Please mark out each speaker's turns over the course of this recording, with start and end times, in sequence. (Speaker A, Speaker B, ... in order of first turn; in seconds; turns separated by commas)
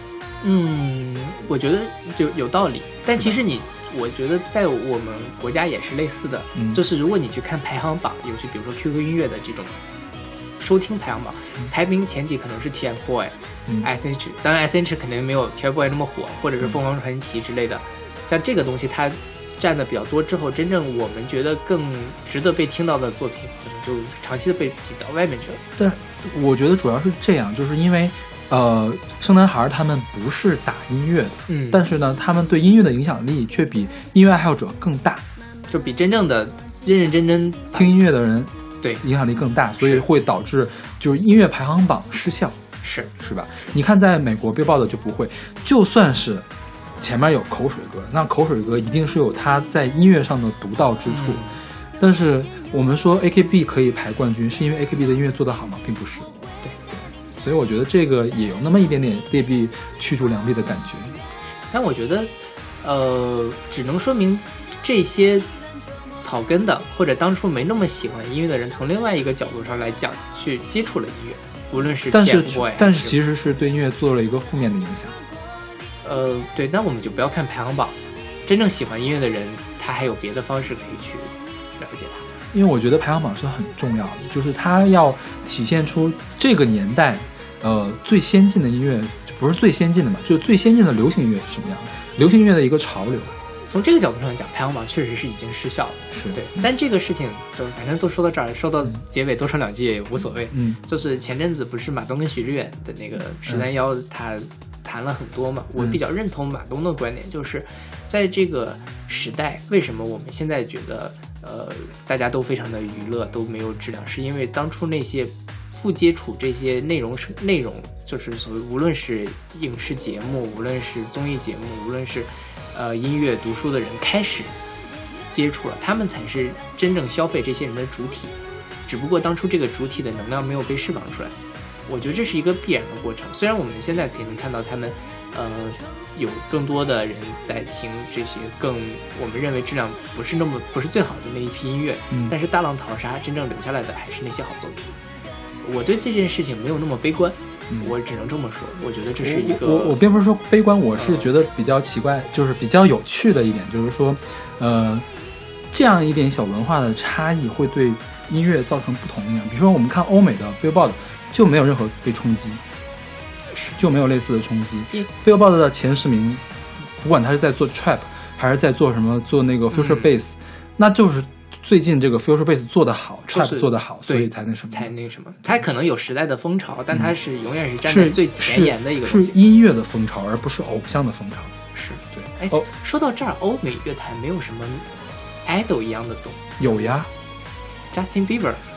Speaker A: 0.4-9.8, Speaker B: 3.1-3.4, Speaker B: 6.5-6.8, Speaker A: 10.6-25.6, Speaker B: 25.8-35.2, Speaker A: 31.5-31.9, Speaker A: 35.7-37.9, Speaker B: 37.7-42.6, Speaker A: 39.8-40.1, Speaker A: 42.8-43.8, Speaker B: 43.2-46.5, Speaker B: 47.0-61.2, Speaker A: 51.1-51.6, Speaker A: 61.5-65.5, Speaker A: 66.2-73.2, Speaker B: 72.1-75.2, Speaker A: 76.0-82.2, Speaker B: 82.5-93.3, Speaker A: 93.7-124.5, Speaker B: 96.1-96.6, Speaker B: 100.5-100.8, Speaker A: 125.3-131.3, Speaker A: 131.9-144.9, Speaker A: 145.6-150.0, Speaker B: 149.2-155.1, Speaker A: 150.9-151.3, Speaker B: 155.7-162.6, Speaker A: 163.5-163.8, Speaker B: 163.8-174.9, Speaker A: 169.7-170.1, Speaker A: 173.3-179.3, Speaker B: 177.8-181.6, Speaker A: 181.7-184.9, Speaker B: 182.1-182.6, Speaker A: 185.4-186.8, Speaker B: 186.6-187.1, Speaker A: 187.9-188.6